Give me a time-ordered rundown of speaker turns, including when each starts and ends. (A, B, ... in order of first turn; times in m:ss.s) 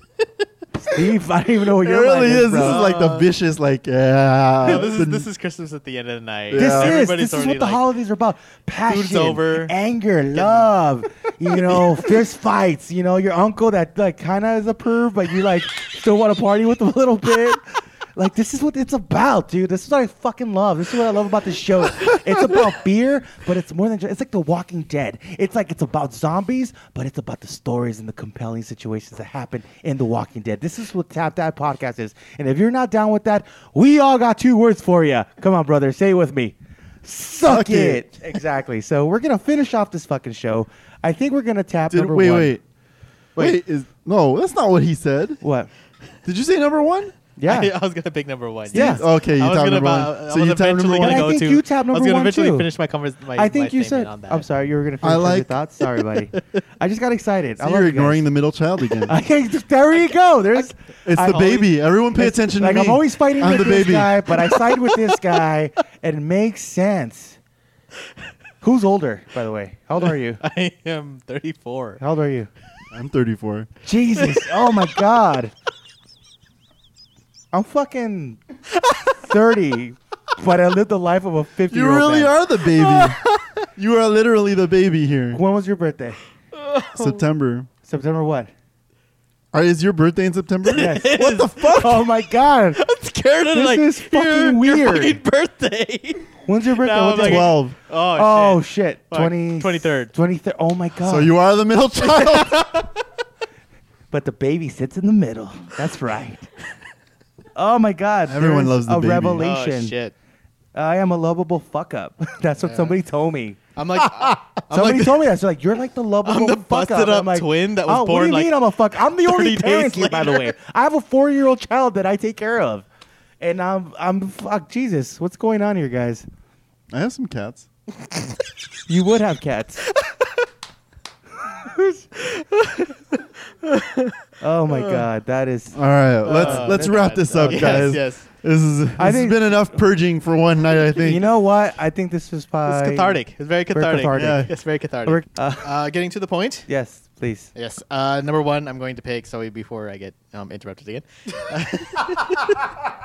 0:00.8-0:02.8 A
0:01.8-0:05.3 B
0:02.6-0:03.3 C
0:04.6-0:07.8 C
0:06.5-0:07.0 B
0:06.5-0:42.5 A
0:08.9-0:09.7 C
0:10.3-0:10.8 C
0:11.5-0:12.1 C
0:37.5-0:38.0 B
0:41.9-0:42.6 B
0:43.4-0:45.4 B
0:45.4-0:45.7 A
0:46.2-0:47.1 B
0:47.4-0:47.7 A
0:47.4-0:54.5 C
0:48.7-0:51.3 B
0:48.7-0:49.0 A
0:51.0-0:52.7 A
0:53.3-0:58.2 A
0:55.0-0:55.6 B
0:57.6-0:59.1 B
0:59.1-1:01.4 A
1:00.5-1:01.7 C
1:01.0-1:04.2 B
1:02.1-1:07.4 A
1:08.6-1:10.4 A
1:10.0-1:12.0 C
1:12.0-1:12.5 A
1:12.9-1:13.7 B
1:13.8-1:15.5 A
1:14.2-1:14.8 C
1:17.5-1:18.4 A
1:19.2-1:22.3 A
1:21.7-1:23.2 B
1:22.6-1:23.6 C
1:23.8-1:25.4 B
1:25.3-1:26.2 A
1:26.5-1:27.2 C
1:27.0-1:27.7 B
1:27.8-1:28.5 A
1:29.5-1:32.1 B
1:30.6-1:32.1 C
1:30.7-1:32.8 A
1:32.7-1:40.1 C
1:33.5-1:35.2 A
1:36.4-1:37.6 A
1:37.2-1:37.8 B
1:38.1-1:41.3 A
1:41.0-1:42.7 B
1:42.0-1:42.9 C
1:44.1-1:46.5 A
1:47.5-1:49.9 A
1:48.3-1:49.4 B
1:49.4-1:50.1 C
1:50.7-1:53.6 A
1:52.6-1:52.9 C
1:53.8-1:55.3 C
1:54.7-2:02.8 A
1:56.2-2:00.5 C
2:03.4-2:06.2 A
2:06.9-2:07.7 B
2:08.9-2:09.8 A
2:11.6-2:12.0 A
2:12.2-2:12.9 C
2:13.6-2:14.2 C
2:14.4-2:18.0 A
2:14.7-2:15.0 C
2:15.7-2:21.2 B
2:16.3-2:16.9 C
2:17.4-2:18.2 C
2:19.0-2:19.8 A
2:21.0-2:23.2 A
2:22.7-2:26.7 C
2:23.7-2:24.5 A
2:24.1-2:24.5 B
2:25.0-2:25.7 A
2:26.7-2:27.5 A
2:27.5-2:32.6 C